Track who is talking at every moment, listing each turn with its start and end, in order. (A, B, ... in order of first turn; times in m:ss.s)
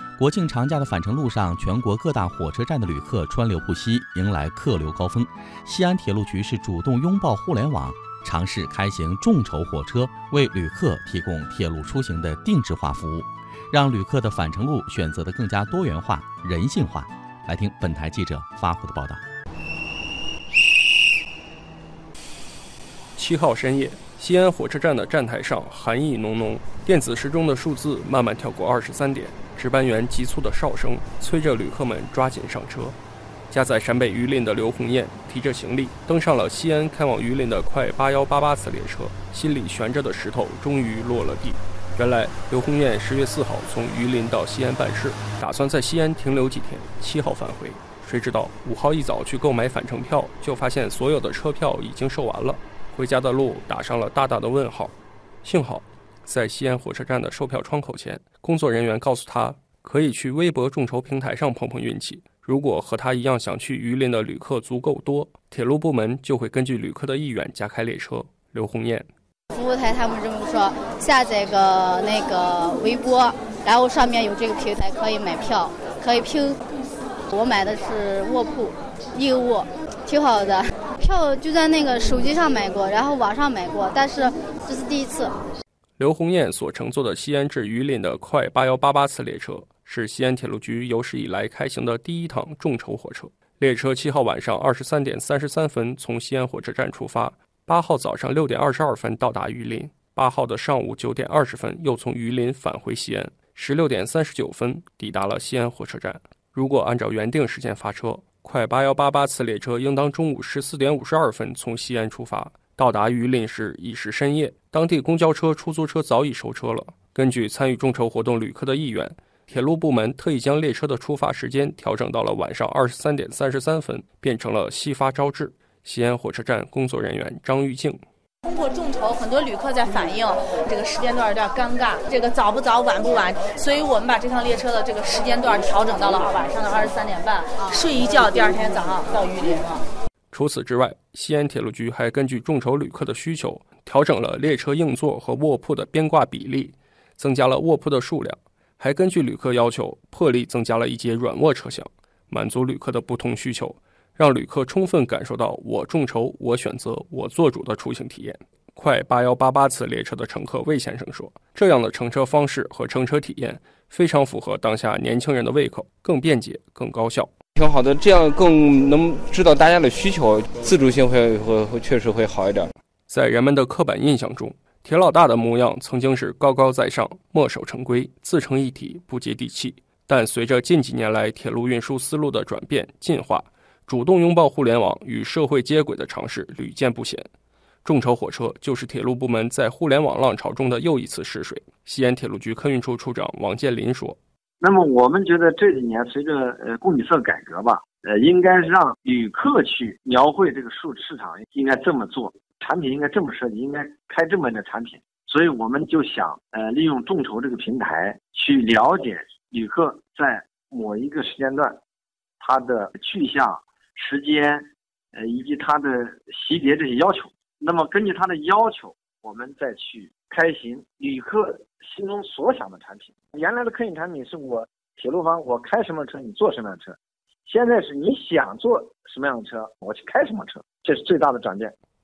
0:00.2-0:19.2 A
0:23.2-0:33.0 B
0:33.5-1:09.1 B
1:09.5-1:16.6 C
1:17.3-1:25.3 C
1:26.0-2:08.0 B
2:08.4-2:19.9 D
2:20.3-2:47.3 B
2:47.5-2:52.7 E
2:53.1-3:07.3 B
3:07.8-3:14.2 B
3:14.6-3:31.8 F
3:32.4-3:51.7 F